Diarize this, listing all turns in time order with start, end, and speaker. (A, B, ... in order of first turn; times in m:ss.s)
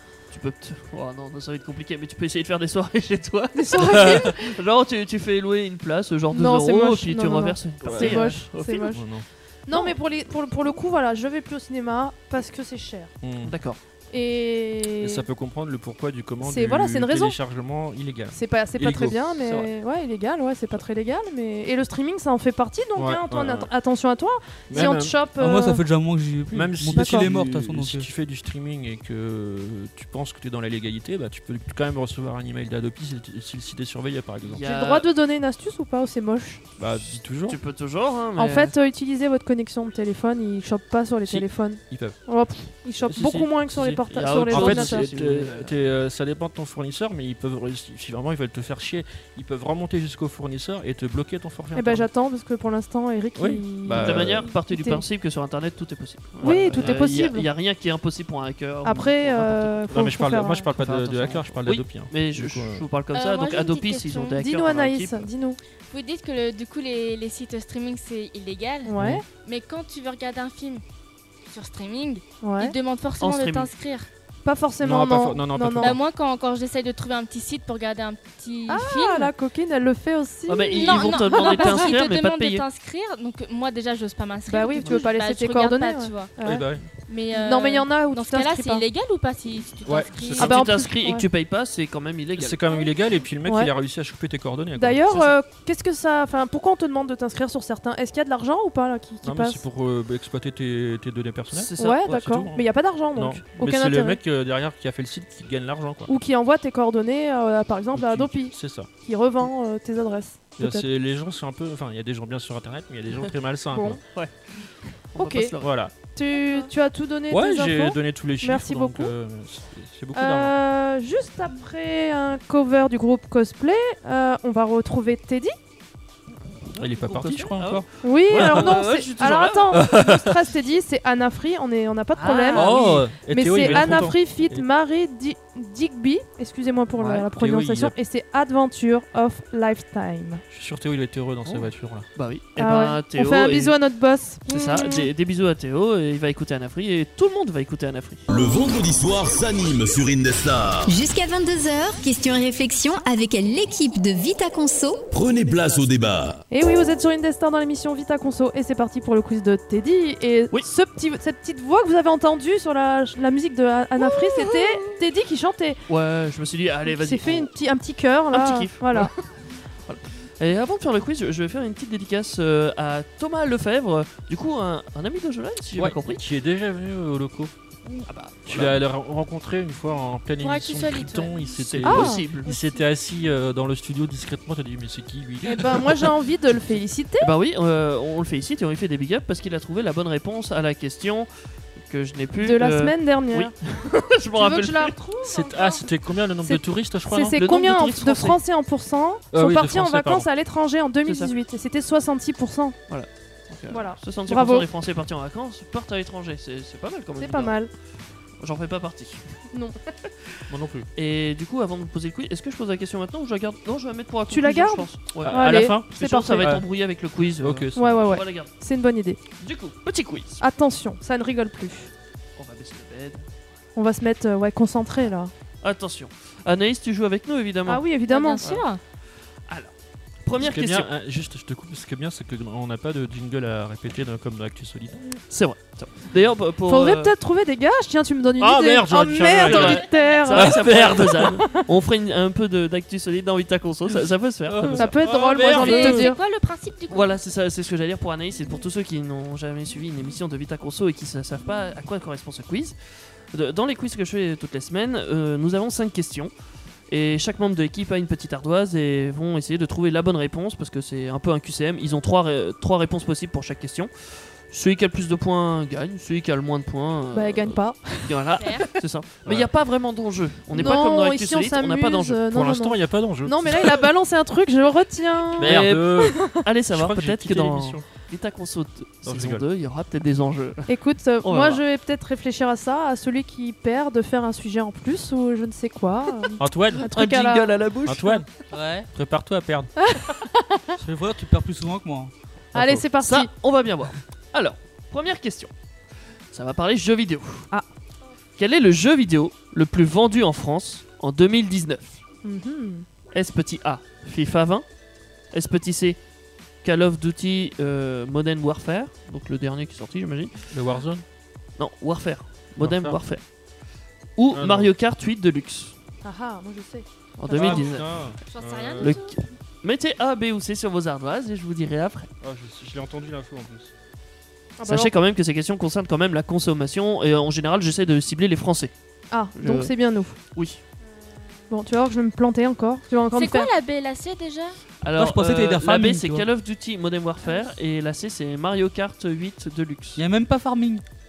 0:00.3-0:08.9 A
0:03.6-0:04.4 B
0:06.3-0:09.1 B
0:07.8-0:09.2 C
0:09.7-0:13.1 B
0:13.2-0:13.6 C
0:13.4-0:13.8 A
0:14.1-0:15.3 B
0:15.0-0:19.2 C
0:16.4-0:17.4 B
0:18.3-0:25.8 B
0:19.4-0:19.7 A
0:23.0-0:23.7 C
0:24.7-0:25.2 C
0:25.4-0:28.1 D
0:26.5-0:34.6 C
0:27.0-0:27.3 B
0:34.4-0:35.1 A
0:34.6-0:36.6 B
0:36.8-0:37.6 C
0:37.5-0:38.8 A
0:38.4-0:45.1 B
0:41.3-0:42.2 C
0:43.1-0:52.1 C
0:44.1-0:45.8 A
0:51.8-0:55.0 B
0:53.4-0:54.5 C
0:54.0-1:00.1 A
0:56.4-0:57.0 C
0:56.4-0:57.5 B
0:58.8-1:00.7 B
0:59.9-1:02.8 C
1:00.8-1:05.3 A
1:03.1-1:04.4 E
1:04.4-1:05.6 B
1:05.9-1:10.8 E
1:08.8-1:09.2 B
1:09.0-1:09.2 C
1:11.4-1:14.1 E
1:12.4-1:12.8 B
1:13.2-1:13.7 A
1:14.4-1:16.0 B
1:14.8-1:16.0 C
1:15.8-1:19.3 E
1:18.7-1:21.9 B
1:20.5-1:22.7 A
1:20.8-1:26.3 E
1:24.5-1:26.7 B
1:26.4-1:26.8 C
1:27.1-1:30.6 E
1:27.3-1:28.8 B
1:29.8-1:30.5 C
1:30.4-1:31.3 B
1:30.4-1:32.7 A
1:32.4-1:35.2 C
1:33.4-1:33.7 B
1:34.8-1:39.6 B
1:35.1-1:35.4 A
1:39.2-1:46.1 C
1:41.5-1:42.4 A
1:41.8-1:44.2 B
1:46.1-1:50.8 B
1:47.9-1:48.9 C
1:50.6-1:54.0 C
1:53.7-1:54.0 B
1:54.1-1:55.8 A
1:55.2-1:55.5 B
1:55.6-1:55.9 C
1:56.1-1:59.1 B
1:57.3-2:00.5 C
2:00.2-2:05.6 B
2:06.6-2:09.9 A
2:06.8-2:08.8 C
2:08.0-2:20.4 B
2:09.7-2:10.4 C
2:12.2-2:13.1 A
2:12.5-2:14.6 C
2:13.6-2:14.0 A
2:17.0-2:17.3 A
2:17.4-2:17.9 C
2:20.5-2:22.1 C
2:21.4-2:23.8 A
2:22.6-2:25.1 B
2:24.5-2:28.2 A
2:28.3-2:30.9 F
2:30.9-2:35.1 G
2:35.1-2:36.4 F
2:36.5-2:45.8 B
2:44.0-2:44.9 A
2:45.9-2:47.5 A
2:46.9-2:49.1 B
2:48.3-2:56.2 A
2:55.8-2:57.5 C
2:58.1-2:58.8 A
2:58.5-3:06.1 C
3:00.4-3:01.6 E
3:01.6-3:02.5 A
3:01.8-3:02.2 B
3:02.4-3:02.8 E
3:05.4-3:07.3 B
3:07.2-3:15.0 A
3:12.4-3:13.5 B
3:14.4-3:15.9 B
3:15.2-3:17.4 C
3:16.4-3:22.8 B
3:17.4-3:18.4 A
3:19.3-3:20.3 C
3:21.0-3:21.3 A
3:22.9-3:27.6 A
3:23.7-3:24.7 B
3:27.2-3:27.7 B
3:28.4-3:30.3 A
3:29.5-3:29.8 B
3:30.5-3:30.9 C
3:31.0-3:38.5 A
3:34.3-3:36.6 B
3:35.2-3:36.7 C
3:37.4-3:38.0 C
3:37.8-3:39.2 B
3:39.4-3:40.4 A
3:40.4-3:41.9 B
3:42.4-3:43.3 A
3:43.8-3:45.3 B
3:45.6-3:47.9 A
3:47.7-3:48.4 B
3:48.1-3:48.8 E
3:49.5-3:49.7 A
3:50.2-3:50.9 A
3:50.4-3:55.0 C
3:55.3-3:57.1 A
3:56.7-4:01.6 B
3:58.4-4:01.4 C
3:59.4-4:05.4 A
4:04.5-4:06.0 C
4:04.8-4:06.2 B
4:05.4-4:07.2 E
4:06.9-4:12.8 A
4:13.3-4:16.3 A
4:16.9-4:32.2 A
4:27.1-4:28.4 B
4:28.4-4:28.7 E
4:30.5-4:36.4 B
4:32.3-4:33.8 C
4:35.4-4:37.9 C
4:35.4-4:40.7 A
4:39.0-4:39.4 C
4:40.7-4:47.5 B
4:41.2-4:41.6 A
4:46.4-4:46.9 C
4:46.8-4:48.2 A
4:47.9-4:48.3 C
4:48.5-4:48.9 D
4:48.9-4:49.7 C
4:49.8-4:50.8 B
4:50.8-4:52.1 D
4:52.5-4:53.3 B
4:52.6-4:55.5 A
4:56.3-4:57.5 A
4:58.4-5:02.0 A
5:02.2-5:02.9 B
5:03.1-5:04.6 A
5:05.3-5:06.0 A
5:06.6-5:10.5 A
5:10.5-5:11.0 C
5:11.6-5:13.2 A
5:12.6-5:13.0 C
5:14.2-5:15.8 A
5:14.3-5:14.7 C
5:16.0-5:17.6 B
5:17.2-5:18.1 A
5:17.3-5:19.0 C
5:18.2-5:19.2 E
5:18.8-5:22.1 A
5:22.2-5:23.7 C
5:24.6-5:24.9 B
5:24.6-5:28.7 A
5:29.1-5:30.2 B
5:29.3-5:29.7 A
5:30.3-5:30.6 A
5:31.5-5:33.5 B
5:33.1-5:34.6 E
5:34.8-5:40.0 A
5:35.0-5:36.3 D
5:40.0-5:40.8 D